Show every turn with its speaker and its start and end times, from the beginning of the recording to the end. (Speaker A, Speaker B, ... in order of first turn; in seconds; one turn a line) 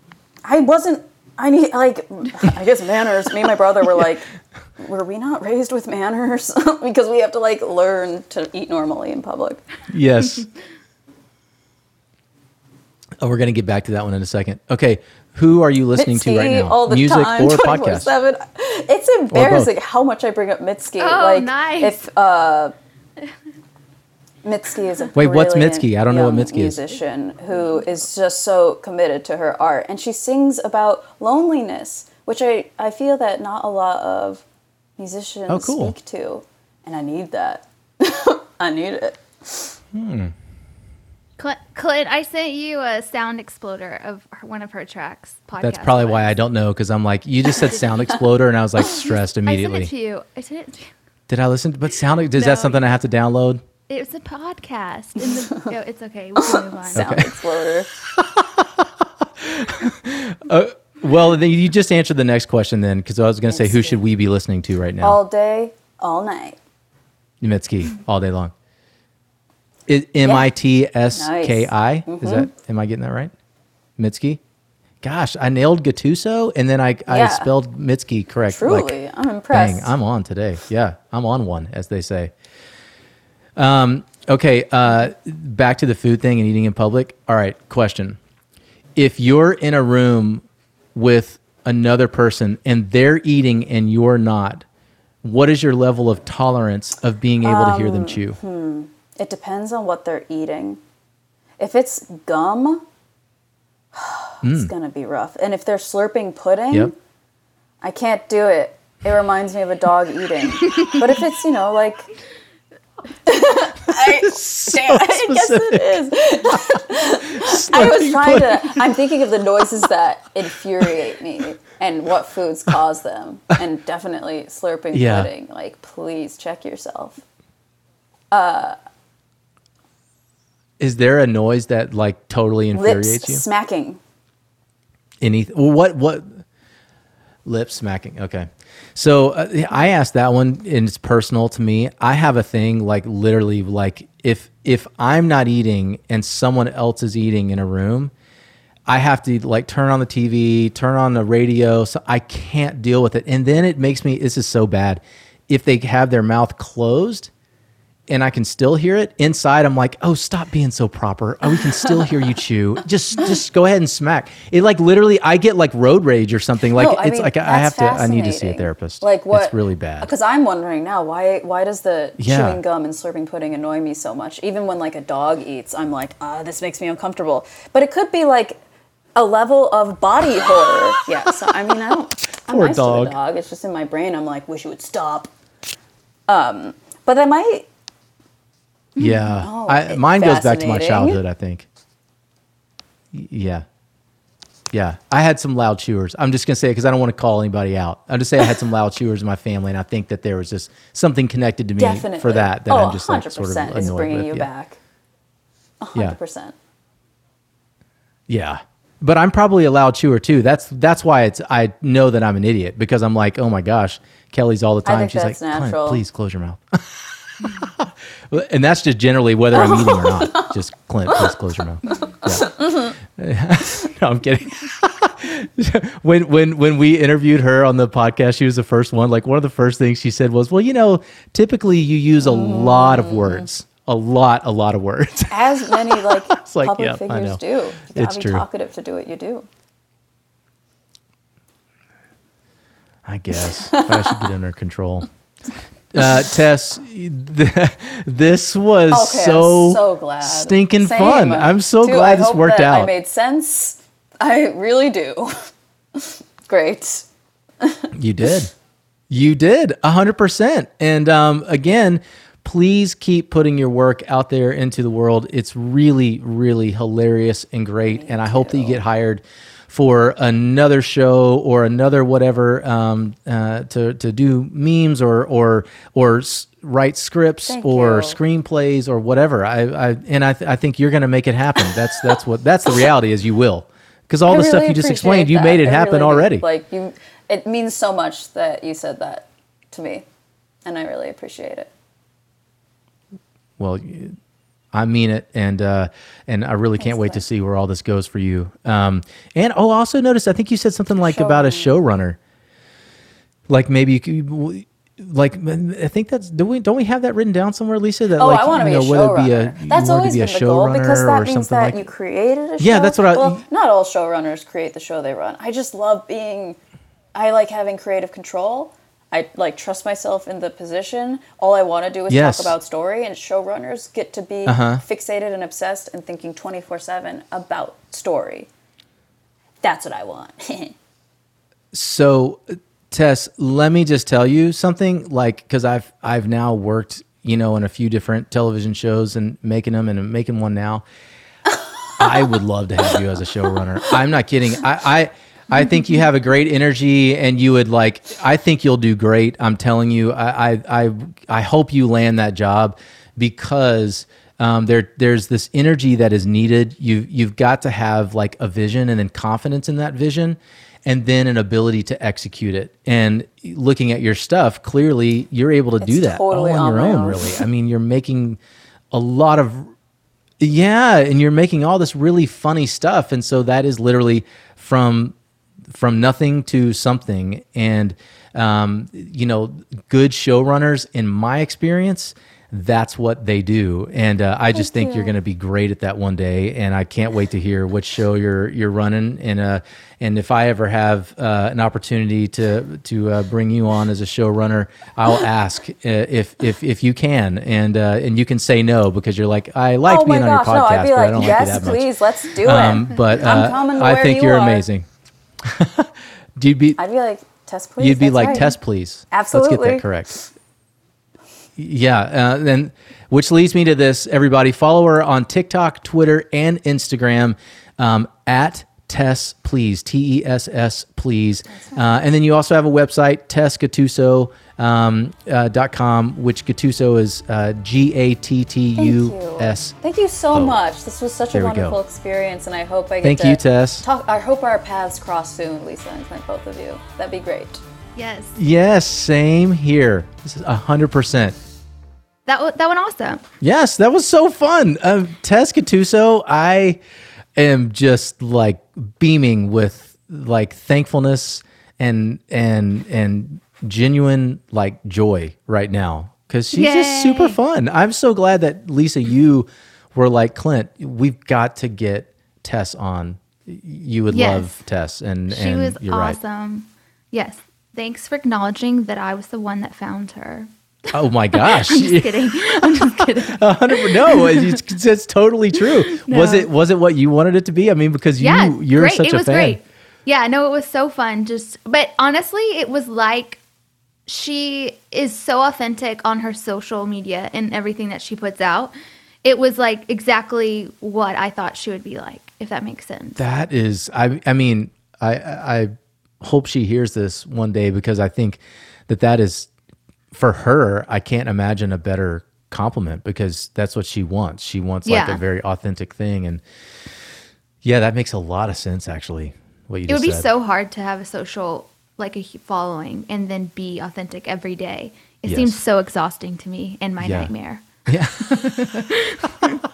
Speaker A: 0.5-9.6
Speaker B: 9.9-10.5
Speaker B: 13.2-18.1
Speaker A: 16.0-22.7
Speaker B: 19.3-19.7
Speaker C: 21.0-22.0
Speaker A: 24.4-34.4
Speaker B: 25.1-26.8
Speaker A: 35.0-39.8
Speaker B: 35.5-36.0
Speaker B: 39.9-40.3
Speaker C: 41.4-46.3
Speaker B: 45.6-49.9
Speaker C: 47.6-48.0
Speaker C: 49.5-50.9
Speaker B: 51.3-53.6
Speaker C: 52.4-52.8
Speaker C: 53.9-57.1
Speaker A: 56.5-57.9
Speaker B: 57.0-57.4
Speaker B: 58.2-58.7
Speaker B: 59.4-65.2
Speaker A: 63.5-64.0
Speaker A: 65.0-66.6
Speaker B: 67.4-68.5
Speaker B: 69.9-73.3
Speaker A: 70.2-70.5
Speaker A: 71.1-72.5
Speaker B: 74.0-74.4
Speaker B: 75.0-79.0
Speaker A: 77.1-77.5
Speaker A: 78.5-79.9
Speaker B: 79.5-82.3
Speaker B: 83.6-88.2
Speaker B: 89.0-90.4
Speaker B: 91.0-94.7
Speaker B: 95.2-98.4
Speaker A: 97.4-100.8
Speaker A: 101.6-102.8
Speaker A: 103.9-106.9
Speaker B: 104.4-104.7
Speaker A: 107.8-112.1
Speaker A: 113.3-127.2
Speaker B: 113.9-116.0
Speaker B: 116.5-116.8
Speaker B: 117.3-118.8
Speaker B: 124.9-125.3
Speaker A: 128.3-128.8
Speaker B: 130.8-133.4
Speaker A: 132.7-134.0
Speaker B: 135.2-136.4
Speaker B: 137.4-148.1
Speaker B: 148.9-157.3
Speaker B: 158.1-170.1
Speaker A: 166.8-178.6
Speaker B: 172.2-172.6
Speaker A: 179.2-185.3
Speaker B: 182.5-183.2
Speaker A: 186.3-187.7
Speaker B: 189.0-191.7
Speaker A: 189.4-191.2
Speaker B: 193.1-193.7
Speaker B: 194.7-204.5
Speaker A: 201.8-204.8
Speaker A: 205.8-206.5
Speaker B: 208.3-238.4
Speaker A: 214.8-216.0
Speaker A: 219.6-220.5
Speaker A: 232.2-233.5
Speaker A: 235.3-239.5
Speaker B: 243.1-245.1
Speaker A: 243.7-244.3
Speaker B: 245.9-252.9
Speaker A: 248.9-255.4
Speaker A: 256.0-257.1
Speaker A: 257.6-257.9
Speaker B: 257.9-258.5
Speaker B: 259.1-286.4
Speaker A: 267.8-268.8
Speaker A: 277.5-278.2
Speaker A: 284.3-290.1
Speaker A: 290.6-291.7
Speaker B: 293.6-294.2
Speaker B: 294.7-302.2
Speaker A: 296.8-297.2
Speaker A: 301.0-301.7
Speaker B: 303.5-311.9
Speaker A: 308.2-316.6
Speaker B: 312.6-313.4
Speaker A: 317.1-328.5
Speaker B: 322.1-322.6
Speaker B: 324.5-324.8
Speaker A: 329.6-330.8
Speaker B: 331.7-340.9
Speaker B: 342.0-368.4
Speaker A: 342.0-342.3
Speaker A: 365.8-367.4
Speaker B: 368.9-369.7
Speaker B: 370.4-375.1
Speaker B: 375.7-404.9
Speaker A: 384.7-385.1
Speaker A: 399.9-404.6
Speaker B: 405.4-406.8
Speaker A: 406.8-408.5
Speaker B: 407.8-410.1
Speaker A: 409.1-410.3
Speaker B: 411.6-429.7
Speaker A: 428.8-437.6
Speaker B: 430.3-430.6
Speaker B: 431.3-431.8
Speaker B: 433.0-433.9
Speaker C: 438.0-438.4
Speaker B: 438.4-441.4
Speaker C: 442.3-443.2
Speaker B: 443.4-446.8
Speaker B: 447.4-466.2
Speaker C: 456.5-457.4
Speaker C: 464.1-464.5
Speaker C: 465.3-474.6
Speaker B: 470.9-479.6
Speaker C: 475.9-476.5
Speaker C: 478.2-483.4
Speaker C: 484.1-493.2
Speaker B: 493.2-499.5
Speaker B: 500.1-506.4
Speaker C: 504.9-505.2
Speaker B: 507.6-510.3
Speaker C: 509.9-517.6
Speaker B: 515.3-515.6
Speaker B: 517.0-517.3
Speaker B: 517.9-518.4
Speaker C: 518.3-519.3